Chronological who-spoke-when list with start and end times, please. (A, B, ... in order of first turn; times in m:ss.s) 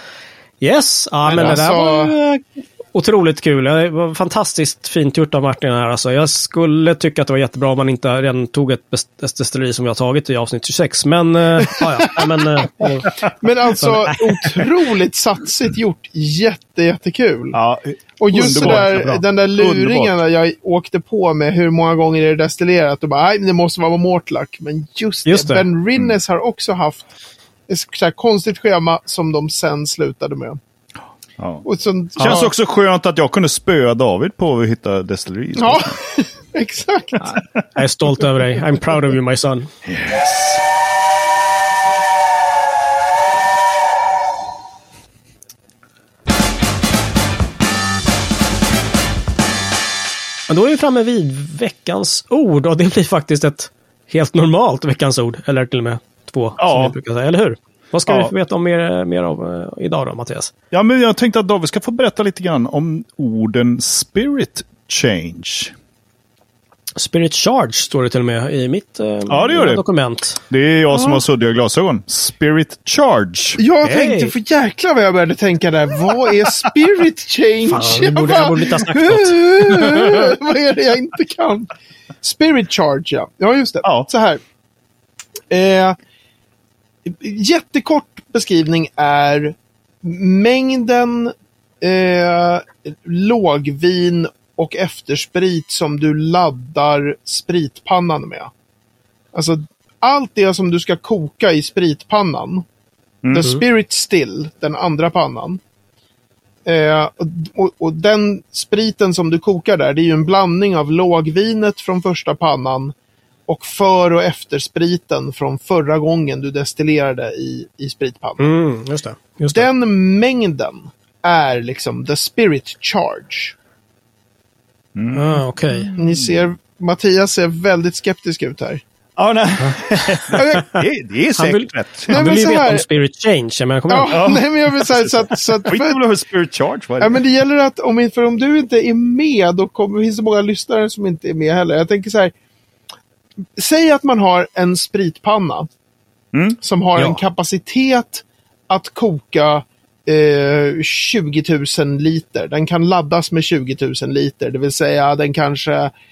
0:00.6-0:13.1 A
0:01.3-0:02.2 B
0:13.2-0:17.6 B
0:13.8-0:14.6 A
0:17.5-0:20.2 C
0:18.2-0:27.1 B
0:18.3-0:19.2 A
0:25.3-0:25.7 A
0:27.7-0:30.6 B
0:31.4-0:31.6 C
0:31.6-0:32.5 B
0:32.2-0:36.0 C
0:35.6-0:37.3 B
0:37.8-0:39.7 A
0:39.9-0:40.6 C
0:50.5-1:00.5 A
0:56.6-0:57.0 C
0:58.1-0:58.3 C
1:00.7-1:05.7 C
1:07.0-1:10.4 A
1:09.3-1:09.8 C
1:10.5-1:13.6 C
1:10.9-1:11.2 B
1:13.6-1:24.4 B
1:13.8-1:14.3 A
1:17.7-1:20.3 A
1:23.8-1:24.1 C
1:25.5-1:26.0 B
1:27.0-1:38.5 B
1:39.3-1:42.6 B
1:43.2-1:43.6 C
1:43.3-1:45.6 B
1:46.7-1:52.9 B
1:53.5-1:58.5 B
1:58.4-1:59.7 A
1:59.5-2:03.6 B
2:05.0-2:06.4 C
2:05.1-2:05.9 A
2:06.0-2:08.8 B
2:09.2-2:12.3 C
2:09.6-2:10.8 A
2:10.3-2:10.6 B
2:11.4-2:14.4 A
2:12.1-2:12.8 B
2:13.9-2:16.0 B
2:14.1-2:17.2 C
2:17.0-2:22.3 B
2:23.6-2:25.7 B
2:26.3-2:26.6 C
2:26.6-2:35.9 B